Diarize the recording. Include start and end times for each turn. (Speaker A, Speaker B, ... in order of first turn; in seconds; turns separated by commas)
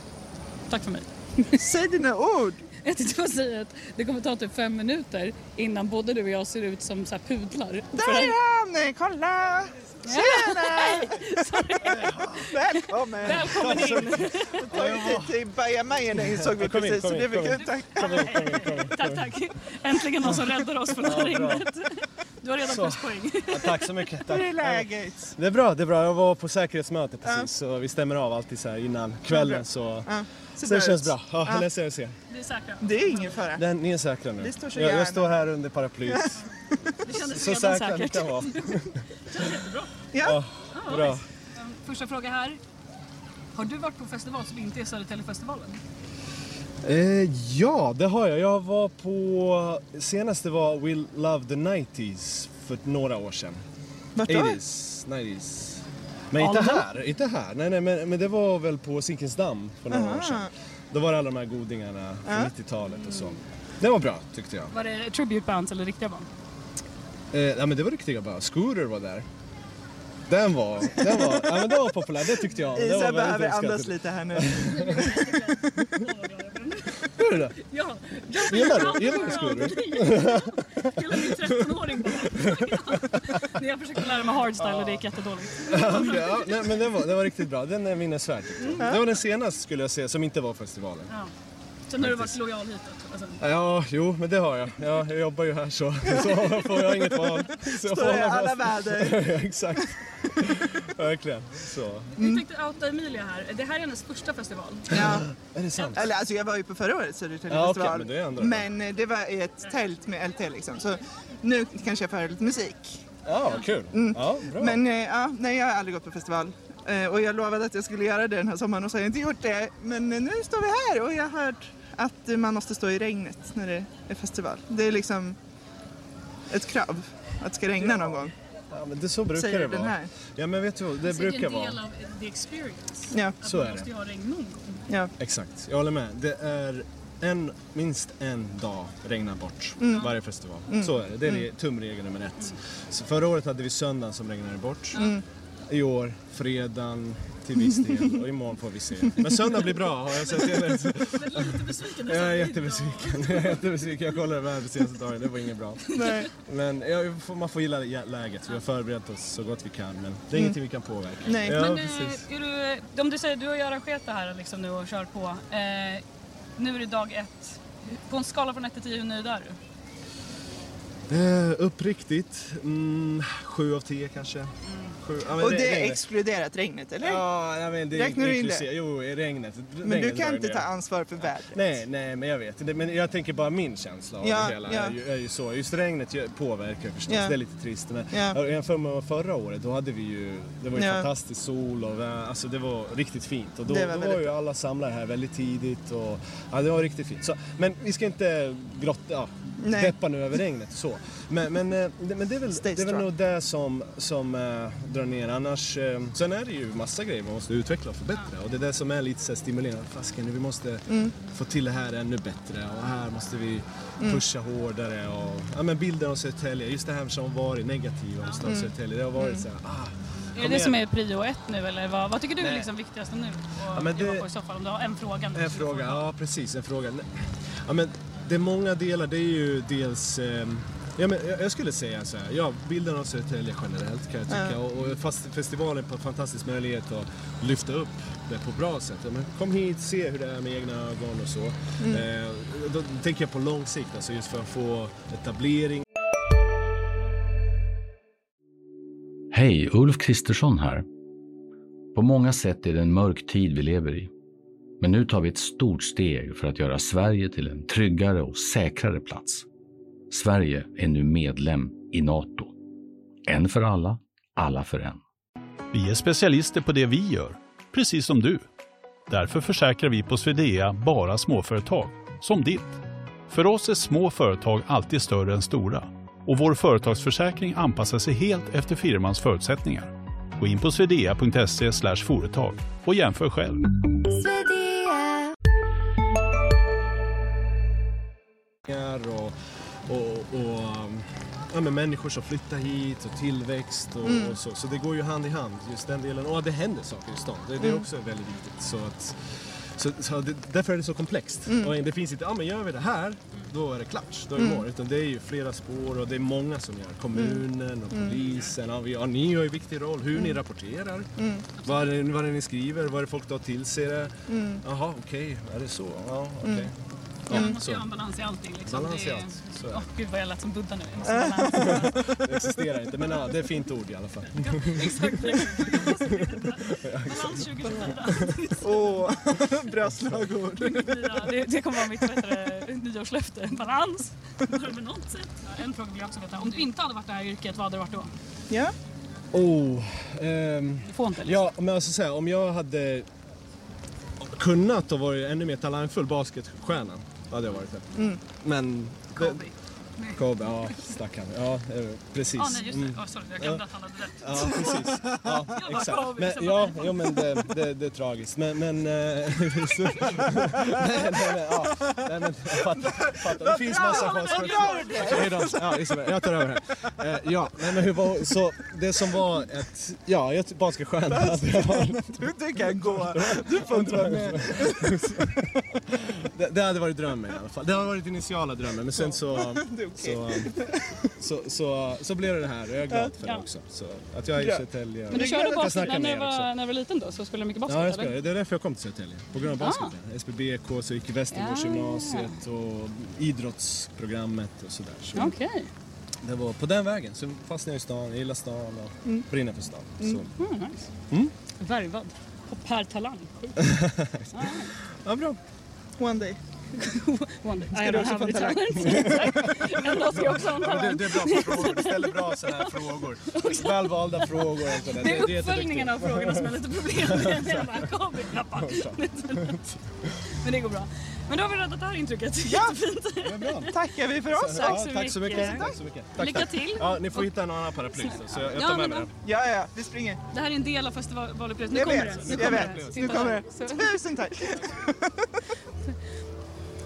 Speaker A: 0.7-1.6, Speaker B: 1.6-2.6, Speaker A: 2.8-8.3, Speaker B: 8.0-11.2, Speaker A: 10.0-12.1, Speaker C: 11.8-12.5, Speaker B: 12.5-18.3, Speaker A: 12.7-14.7, Speaker C: 13.2-15.4, Speaker C: 16.1-19.3, Speaker A: 17.9-23.9, Speaker C: 21.0-21.7, Speaker C: 22.6-32.1, Speaker B: 24.3-25.3, Speaker B: 27.2-27.5, Speaker B: 29.3-31.7, Speaker A: 32.3-33.4, Speaker B: 32.8-33.7, Speaker C: 33.5-36.4, Speaker B: 34.4-35.4, Speaker B: 36.1-36.9, Speaker A: 37.0-39.9, Speaker C: 37.3-39.0, Speaker B: 40.1-40.4, Speaker C: 40.2-41.2, Speaker A: 40.7-42.6, Speaker A: 43.5-45.8, Speaker C: 46.8-53.6, Speaker B: 54.2-54.6, Speaker C: 54.3-64.7, Speaker A: 56.4-56.9, Speaker B: 59.9-60.5, Speaker B: 62.3-62.5, Speaker A: 63.0-63.4, Speaker A: 64.7-66.3, Speaker C: 67.3-69.3, Speaker C: 70.3-76.0, Speaker B: 72.7-75.3, Speaker A: 74.7-77.0, Speaker C: 77.2-77.6, Speaker A: 77.6-86.6, Speaker C: 78.4-83.0, Speaker C: 84.6-85.0, Speaker C: 85.6-91.1, Speaker A: 88.6-88.9, Speaker A: 91.9-93.4, Speaker C: 92.0-92.4, Speaker C: 93.4-102.2, Speaker B: 96.1-99.3, Speaker A: 102.2-105.0, Speaker B: 102.2-102.4, Speaker B: 104.9-105.3, Speaker C: 104.9-106.2, Speaker B: 105.9-113.0, Speaker C: 107.5-108.7, Speaker C: 113.3-114.8, Speaker B: 113.9-125.4, Speaker B: 126.5-128.3, Speaker C: 128.7-131.8, Speaker B: 129.3-130.1, Speaker A: 131.0-134.9, Speaker B: 133.1-133.4, Speaker C: 133.4-133.9, Speaker C: 135.2-145.1, Speaker B: 139.8-141.4, Speaker A: 144.9-145.2, Speaker B: 144.9-145.2, Speaker C: 145.7-162.2, Speaker A: 151.1-153.7, Speaker A: 155.9-156.3, Speaker B: 156.0-156.3, Speaker B: 161.2-161.6, Speaker A: 161.5-166.0, Speaker A: 166.6-169.6, Speaker C: 171.1-176.1, Speaker B: 175.4-177.2, Speaker C: 177.0-220.9, Speaker B: 177.9-178.7, Speaker B: 179.8-181.8, Speaker B: 184.2-185.0, Speaker B: 187.1-187.4, Speaker B: 188.1-188.4, Speaker B: 190.8-191.1, Speaker B: 193.7-194.3, Speaker B: 199.6-200.0, Speaker B: 202.5-203.1, Speaker B: 210.9-211.1, Speaker B: 214.0-214.2, Speaker B: 218.4-219.5, Speaker A: 220.3-226.1, Speaker C: 222.4-222.7, Speaker C: 223.7-224.3, Speaker C: 225.3-227.1, Speaker C: 227.7-245.8, Speaker B: 234.3-234.6, Speaker B: 241.8-242.1, Speaker D: 249.3-250.8, Speaker D: 251.9-254.1, Speaker D: 254.8-259.5, Speaker D: 260.1-262.5, Speaker D: 263.3-265.0, Speaker E: 265.7-268.4, Speaker E: 269.1-283.6, Speaker C: 288.7-289.3, Speaker C: 289.9-299.2, Speaker B: 294.0-294.4, Speaker B: 297.6-297.9, Speaker C: 299.8-311.1, Speaker B: 301.5-301.8, Speaker B: 304.4-304.7, Speaker B: 307.1-308.1, Speaker B: 310.1-310.4, Speaker B: 311.2-311.5, Speaker C: 311.6-316.8, Speaker B: 314.3-314.6, Speaker B: 316.4-316.7, Speaker C: 317.3-317.9, Speaker A: 317.3-322.0, Speaker B: 317.3-317.6, Speaker C: 318.7-319.8, Speaker B: 321.1-322.1, Speaker C: 321.6-328.4, Speaker A: 324.3-329.0, Speaker B: 328.6-331.0, Speaker C: 329.9-330.3, Speaker A: 330.6-338.1, Speaker B: 338.5-338.7, Speaker C: 339.3-343.1, Speaker A: 340.9-341.5, Speaker C: 344.2-349.4, Speaker B: 347.9-348.2, Speaker A: 349.1-350.8, Speaker C: 350.2-353.6, Speaker A: 352.4-354.9, Speaker C: 354.2-380.6, Speaker A: 355.5-357.2, Speaker B: 362.9-365.9, Speaker A: 363.7-365.3, Speaker B: 371.1-374.9, Speaker B: 378.9-381.0, Speaker C: 381.2-386.5, Speaker B: 382.9-383.1, Speaker B: 384.4-385.9, Speaker A: 385.1-388.2, Speaker C: 387.7-395.3, Speaker A: 389.5-389.9, Speaker A: 391.3-392.3, Speaker A: 395.1-395.7, Speaker C: 396.2-400.3, Speaker B: 400.0-400.2, Speaker A: 400.4-400.9, Speaker A: 401.6-403.7, Speaker C: 403.6-405.4, Speaker A: 404.3-404.7, Speaker B: 406.0-406.4, Speaker A: 406.7-419.8, Speaker B: 407.7-409.4, Speaker C: 408.8-419.7, Speaker A: 420.4-423.7, Speaker B: 422.5-422.8, Speaker C: 423.2-429.1, Speaker B: 423.7-425.8, Speaker A: 424.4-427.4, Speaker A: 427.9-429.1, Speaker B: 429.2-430.2, Speaker A: 430.3-434.0, Speaker B: 431.7-435.3, Speaker C: 432.2-433.4